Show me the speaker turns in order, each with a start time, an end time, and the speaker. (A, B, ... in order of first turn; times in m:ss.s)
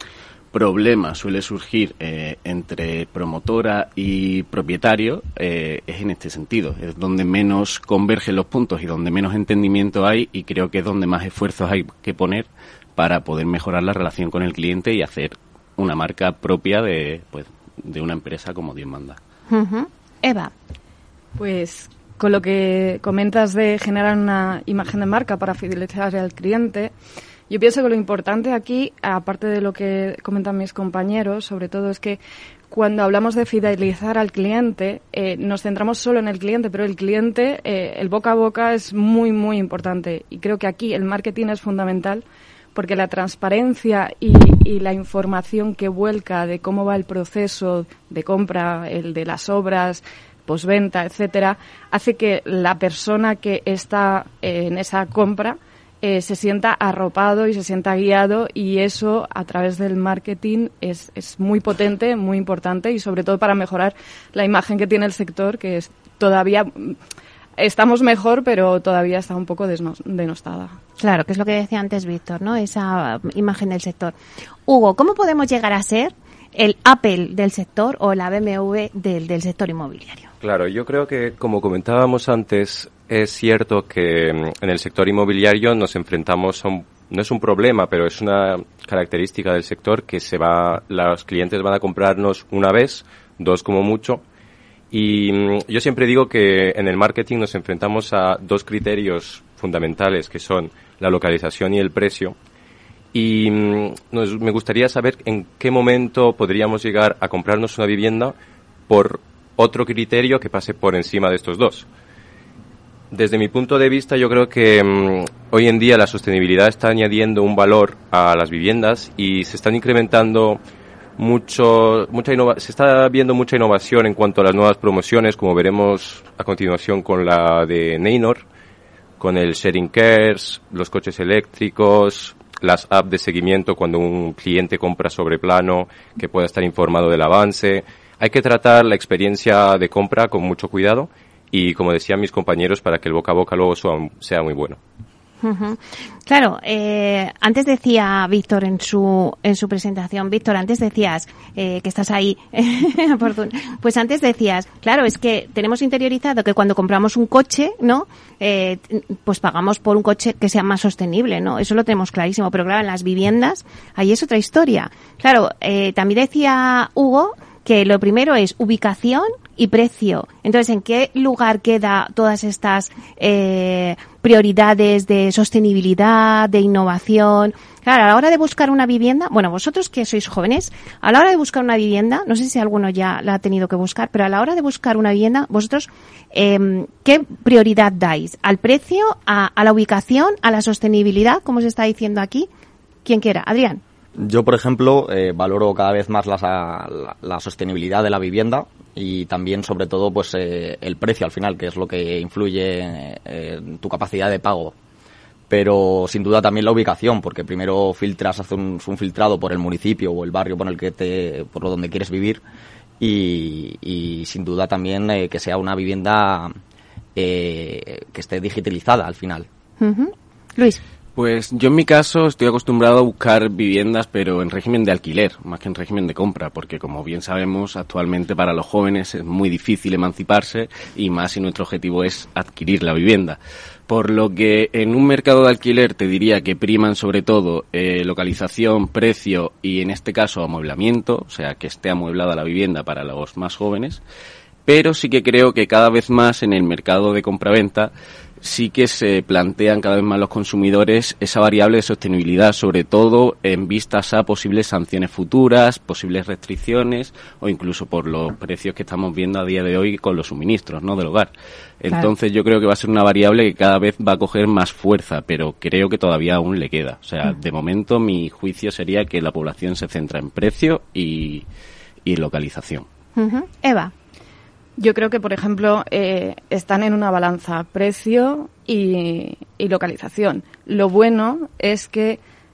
0:00.5-0:19.2 A
0:19.5-0:20.5 B
0:21.4-0:26.9 C
0:27.5-0:42.2 C
0:42.7-1:07.0 C
1:07.6-1:10.8 C
1:11.0-1:14.1 B
1:14.7-1:20.3 B
1:20.4-1:34.2 D
1:34.9-1:42.3 D
1:43.1-1:48.3 D
1:48.9-1:51.9 D
1:53.1-2:00.6 D
2:01.2-2:08.4 D
2:09.2-2:24.8 D
2:25.4-3:12.5 B
3:13.0-3:13.8 B
3:14.2-3:24.7 E
3:25.5-3:32.4 E
3:33.0-3:36.5 E
3:37.2-3:39.5 E
3:39.8-3:40.8 B
3:41.1-4:04.0 A
4:04.6-4:31.4 A
4:32.0-4:32.9 A
4:33.2-4:33.9 B
4:34.8-4:42.2 C